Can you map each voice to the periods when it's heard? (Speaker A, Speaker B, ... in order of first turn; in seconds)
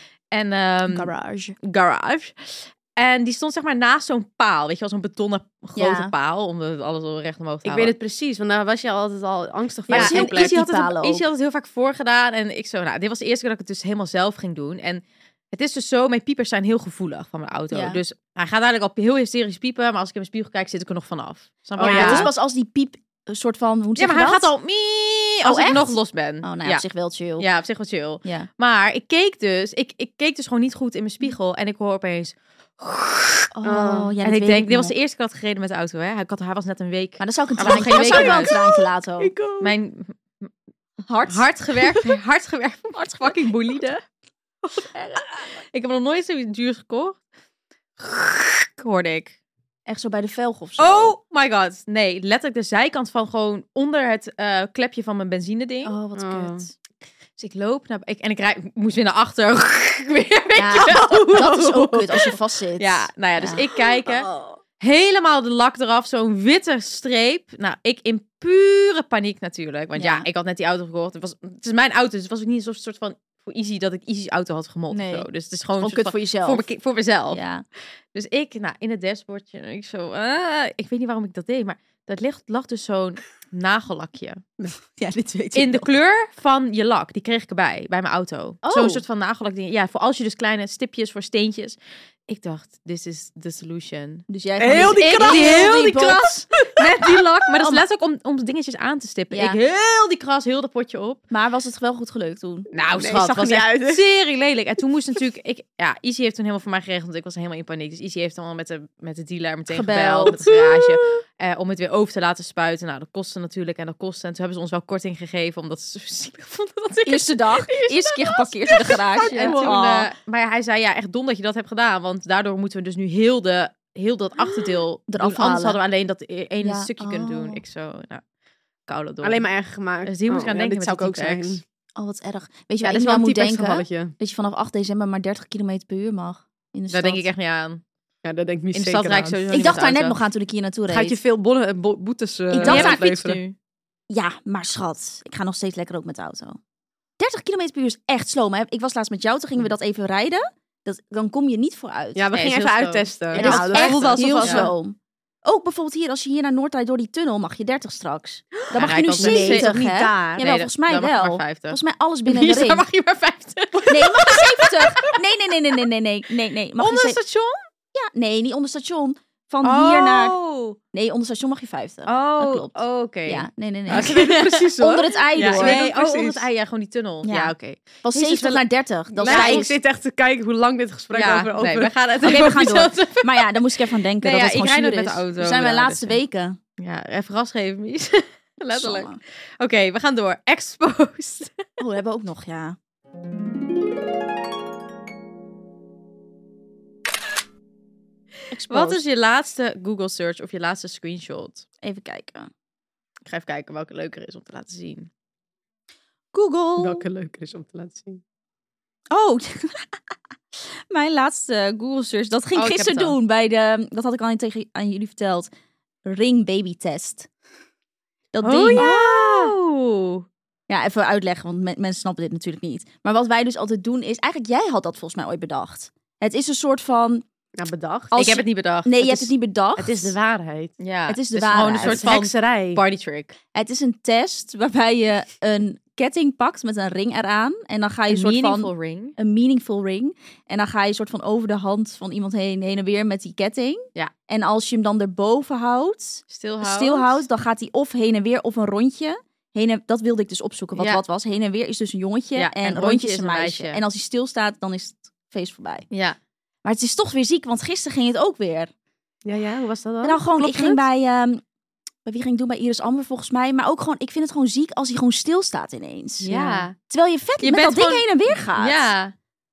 Speaker A: 0.3-7.9, 9.9-22.3, 24.0-26.8, 27.4-33.5, 34.2-38.5, 39.6-40.5, 41.3-44.0, 45.2-47.2, 48.0-49.4, 50.8-56.0, 57.4-64.3, 64.8-77.4, 78.1-84.4, 85.5-101.2, 102.7-128.2, 128.9-129.5, 130.1-131.6, 136.9-137.8, 138.7-140.2, 142.6-143.6, 152.3-154.7, 158.7-159.8, 160.3-165.2, 166.8-167.6, 169.6-170.8, 172.1-174.7, 175.4-179.7, 181.1-186.2, 186.8-191.6, 198.7-201.7, 203.3-205.1, 212.6-213.2, 218.4-220.2, 228.1-229.3, 230.8-233.3, 238.1-239.2, 246.3-247.2, 250.8-251.0, 252.4-253.8, 255.9-256.2, 266.2-266.8, 267.4-269.1
Speaker B: 0.9-1.6, 5.8-6.1, 9.9-11.2, 17.7-18.0, 21.8-24.5, 25.4-27.5, 33.5-34.9, 37.2-39.3, 41.1-42.1, 42.9-43.8, 44.8-45.2, 49.9-51.1, 55.9-56.7, 60.6-64.6, 70.0-70.3, 74.9-75.3, 75.8-76.7, 77.3-77.6, 84.8-85.9, 88.6-89.0, 94.3-96.5, 97.6-97.8, 99.3-99.6, 101.3-102.7, 109.7-110.4, 117.1-120.1, 125.1-125.8, 126.6-127.6, 132.0-137.3, 139.5-141.2, 142.5-143.1, 144.1-146.6, 147.2-152.3, 153.3-162.8, 163.9-167.2, 167.9-170.4, 170.9-174.2, 174.8-175.9, 177.2-179.7, 182.2-186.6, 188.7-189.2, 191.8-192.8, 198.5-199.0, 201.8-202.5, 206.3-207.1, 209.1-210.0, 210.6-215.5, 216.1-217.3, 218.3-219.5, 220.7-227.2, 228.1-230.2, 231.1-232.1, 233.5-255.9, 256.6-258.7, 260.0-261.4, 262.1-268.9
Speaker C: 7.7-10.6, 21.8-22.3, 33.6-34.1, 37.6-39.7, 56.2-56.7, 94.6-96.1, 96.8-97.2, 102.9-104.0, 110.3-111.2, 119.1-119.8, 129.2-131.6, 132.8-134.1, 138.2-139.4, 140.9-143.4, 152.2-154.7, 159.2-160.4, 173.9-176.5, 179.2-181.9, 206.8-208.2, 218.7-219.2, 227.6-228.4, 229.8-230.7, 231.8-232.8, 259.2-260.8, 266.3-266.7